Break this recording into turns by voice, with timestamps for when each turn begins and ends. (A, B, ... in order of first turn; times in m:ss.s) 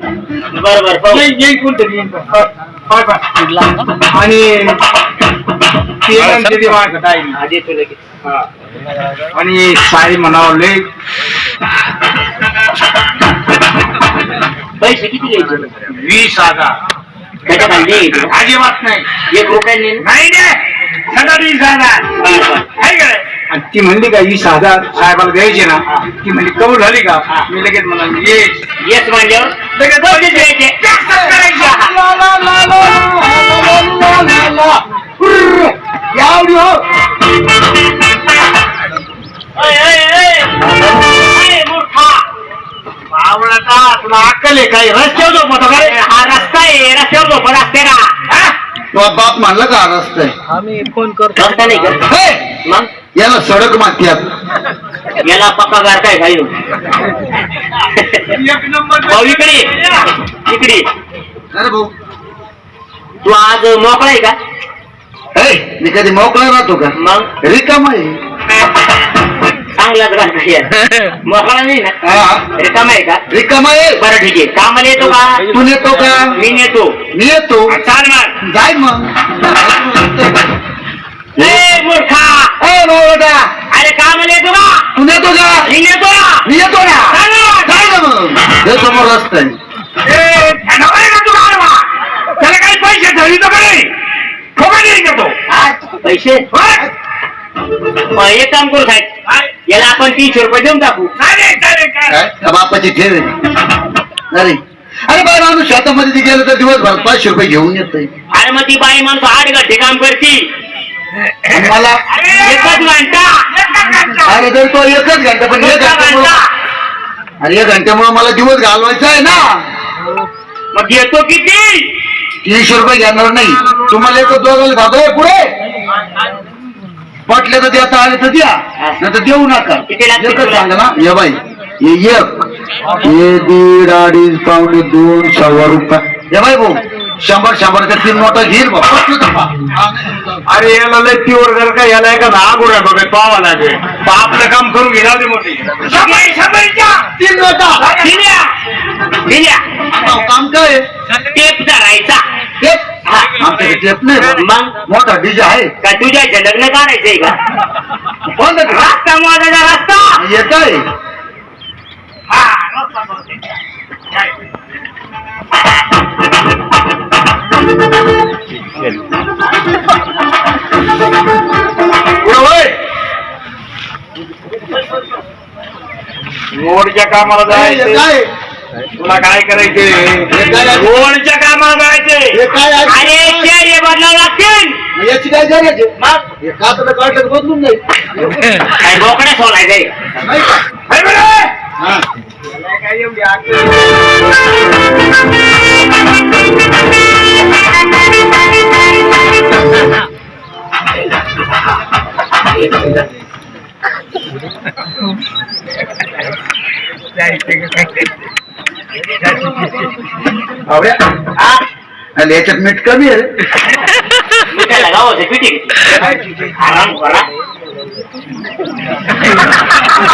0:00.5-0:01.2 A
0:01.1-0:03.2 B
0:04.1-0:04.8 B
0:06.0-0:07.4 B
0:07.3-0:08.0 A
0:09.3-0:10.8 B
0:14.8-0:15.7 A
0:15.8-0:16.7 B
0:17.4-0:18.3 A
0:18.3-0:19.1 B
0:19.3-0:20.0 A
0:20.0-0:22.2 B
0:22.2-0:22.7 A
0:22.8-0:28.6 B
0:28.8-0:30.8 A
0:29.8-0:32.0 B
0:31.5-0:31.9 A
0:32.0-0:36.8 C
0:39.6-0:40.5 A
0:40.6-0:41.2 C
0:41.1-0:42.2 A
0:43.1-0:45.9 B
0:45.7-0:48.1 A
0:48.3-0:48.5 B
0:48.9-0:50.3 C
0:51.3-0:52.0 A
0:52.0-0:52.4 C
0:53.2-0:54.2 C
0:55.2-0:56.5 A
0:57.8-0:58.2 A
0:58.3-1:00.0 B
0:59.1-0:59.7 A
1:00.4-1:00.8 A
1:01.5-1:01.9 C
1:03.2-1:04.4 A
1:05.3-1:08.2 C
1:06.9-1:07.3 A
1:09.7-1:11.9 A
1:12.0-1:12.4 C
1:12.5-1:13.2 A
1:13.3-1:14.0 C
1:14.0-1:15.4 A
1:15.5-1:16.4 C
1:16.3-1:17.0 A
1:17.1-1:17.8 C
1:17.7-1:18.3 A
1:18.4-1:20.5 C
1:21.4-1:21.6 C
1:21.4-1:22.5 A
1:22.6-1:23.5 C
1:23.7-1:24.9 A
1:24.9-1:25.7 C
1:25.6-1:26.5 A
1:26.4-1:29.6 C
1:27.1-1:28.0 B
1:30.0-1:33.9 B
1:34.6-1:35.3 B
1:35.5-1:36.5 A
1:36.5-1:36.8 B
1:38.1-1:39.1 A
1:39.6-1:41.1 A
1:41.2-1:42.2 B
1:42.1-1:43.3 C
1:44.3-1:48.1 C
1:48.3-1:50.5 A
1:51.5-1:52.0 C
1:51.6-1:52.9 B
1:52.4-1:53.3 A
1:53.5-1:54.5 B
1:54.2-1:56.3 C
1:55.6-1:56.4 A
1:57.4-1:59.6 C
2:00.7-2:01.9 A
2:02.4-2:05.4 C
2:07.3-2:12.4 C
2:09.9-2:10.7 A
2:13.0-2:20.4 C
2:20.5-2:27.1 B
2:25.8-2:26.3 A
2:27.2-2:27.9 C
2:27.8-2:28.1 B
2:28.0-2:28.5 A
2:29.2-2:29.6 A
2:29.9-2:30.8 C
2:31.3-2:32.2 A
2:32.6-2:35.7 C
2:33.0-2:33.3 A
2:34.2-2:34.7 A
2:35.8-2:37.4 A
2:38.2-2:38.9 C
2:38.7-2:40.2 A
2:40.2-2:40.8 C
2:42.3-2:43.4 A
2:52.2-2:52.7 C
2:56.5-2:58.0 B
2:57.5-2:58.3 C
2:59.0-3:02.4 B
3:00.3-3:01.0 C
3:02.3-3:03.5 C
3:02.8-3:04.8 A
3:04.9-3:08.6 C
3:08.7-3:09.9 A
3:10.2-3:10.6 C
3:10.9-3:11.5 B
3:11.8-3:12.0 C
3:12.5-3:13.8 B
3:32.2-3:33.3 C
3:34.5-3:37.3 A